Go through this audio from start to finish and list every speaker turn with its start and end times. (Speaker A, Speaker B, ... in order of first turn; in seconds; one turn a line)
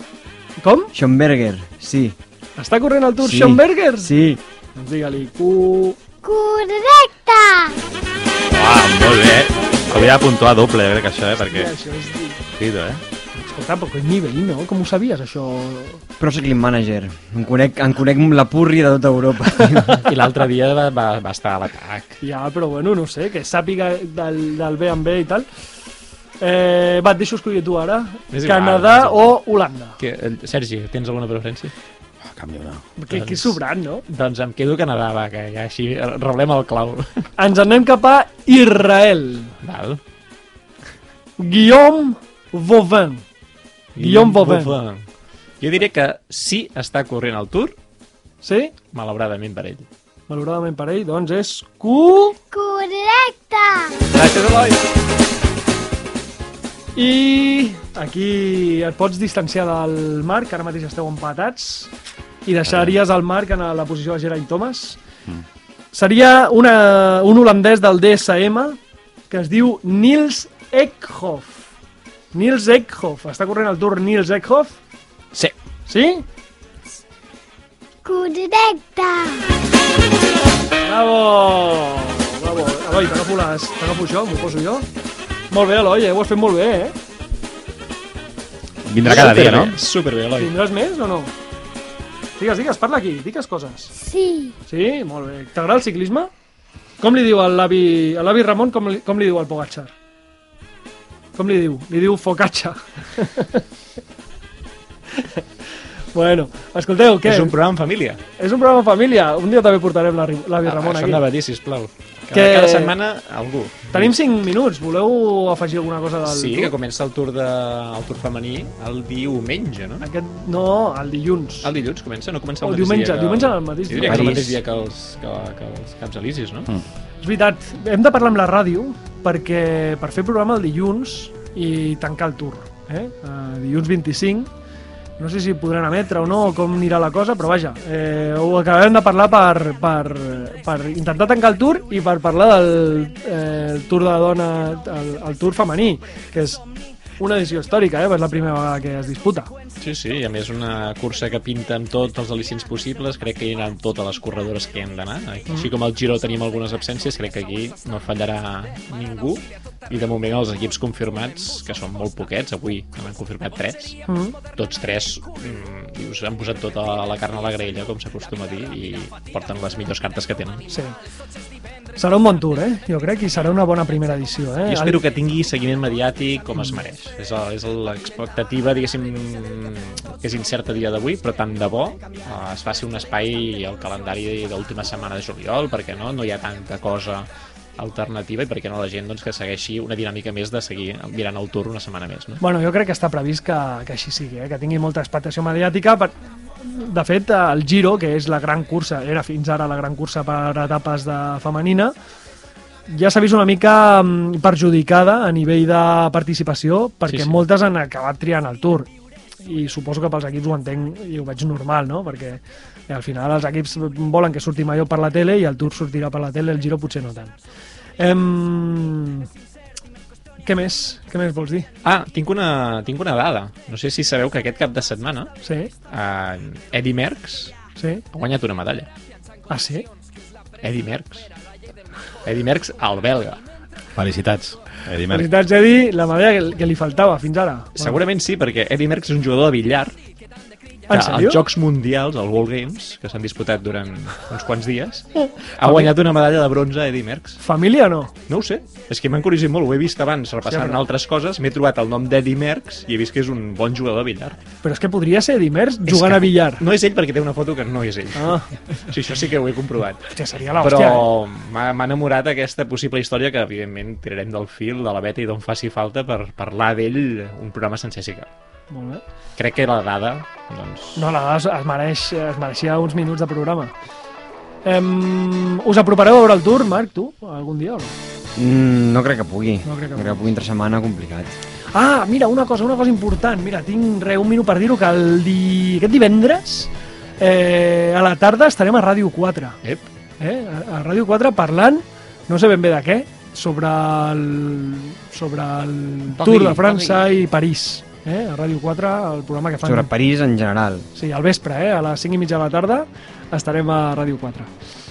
Speaker A: 0.6-0.9
Speaker B: 0.9-2.2
Speaker A: 2.6-4.2
Speaker B: 3.2-4.4
Speaker A: 4.8-6.0
Speaker C: 6.2-7.8
Speaker D: 8.5-11.7
Speaker A: 11.5-12.4
Speaker D: 12.5-13.0
Speaker A: 13.4-16.0
Speaker B: 16.2-20.1
Speaker E: 20.0-22.2
Speaker A: 22.2-25.5
Speaker A: 26.4-30.0
Speaker E: 28.3-29.4
Speaker E: 30.0-31.7
Speaker D: 32.2-32.9
Speaker A: 33.0-34.0
Speaker E: 33.1-37.3
Speaker A: 37.4-39.5
Speaker E: 39.6-40.0
Speaker A: 41.4-43.2
Speaker E: 44.0-45.1
Speaker A: 44.0-44.7
Speaker E: 45.6-47.8
Speaker A: 48.4-48.7
Speaker E: 48.9-49.9
Speaker A: 50.3-52.4
Speaker C: 52.5-54.0
Speaker E: 54.1-54.8
Speaker A: 57.0-61.9
Speaker A: 62.5-65.0
Speaker D: 62.7-62.9
Speaker A: 65.9-68.8
Speaker A: 69.3-71.6
Speaker A: 72.3-74.8
Speaker A: 75.9-76.2
Speaker C: 78.0-79.5
Speaker A: 80.8-84.9
Speaker A: 85.5-87.0
Speaker D: 88.8-89.8
Speaker E: 89.0-90.5
Speaker A: 90.4-91.3
Speaker A: 92.4-93.9
Speaker C: 94.0-94.6
Speaker A: 94.7-96.3
Speaker A: 97.0-99.9
Speaker A: 101.4-103.7
Speaker A: 105.1-105.5
Speaker A: 106.1-107.5
Speaker E: 107.2-108.2
Speaker A: 108.4-111.2
Speaker E: 110.6-114.1
Speaker A: 112.3-112.9
Speaker A: 113.9-116.7
Speaker E: 116.2-120.0
Speaker A: 120.0-121.7
Speaker E: 121.6-126.7
Speaker A: 122.6-124.5
Speaker B: 124.0-124.6
Speaker A: 127.2-134.5
Speaker A: 135.2-146.6
Speaker A: 147.2-149.5
Speaker E: 149.8-164.0
Speaker A: 164.1-164.4
Speaker E: 164.5-170.7
Speaker A: 170.7-170.9
Speaker A: 172.0-175.0
Speaker E: 174.7-192.4
Speaker A: 176.6-176.8
Speaker A: 192.4-201.9
Speaker A: 202.9-217.3
Speaker E: 207.1-207.4
Speaker A: 218.0-219.3
Speaker A: 220.4-221.7
Speaker E: 221.8-225.3
Speaker A: 225.4-225.7
Speaker E: 225.9-227.6
Speaker A: 227.8-228.0
Speaker E: 228.1-228.9
Speaker A: 229.5-229.9
Speaker E: 230.6-231.3
Speaker E: 232.2-233.4
Speaker D: 233.9-235.3
Speaker A: 235.1-238.0
Speaker E: 237.8-239.9
Speaker A: 240.9-241.4
Speaker E: 240.9-247.4
Speaker A: 245.2-245.9
Speaker A: 247.4-248.1
Speaker E: 248.3-254.4
Speaker A: 250.5-250.8
Speaker A: 254.6-256.6
Speaker E: 255.9-268.3
Speaker A: 258.2-258.5
Speaker A: 260.1-261.1
Speaker A: 268.7-269.0
Speaker E: 269.4-271.1
Speaker A: 271.0-273.7
Speaker A: 274.6-278.0
Speaker B: 278.4-281.4
Speaker A: 279.6-280.2
Speaker A: 281.7-289.6
Speaker A: 290.2-299.9
Speaker E: 296.1-297.1
Speaker B: 299.6-300.9
Speaker A: 300.9-304.5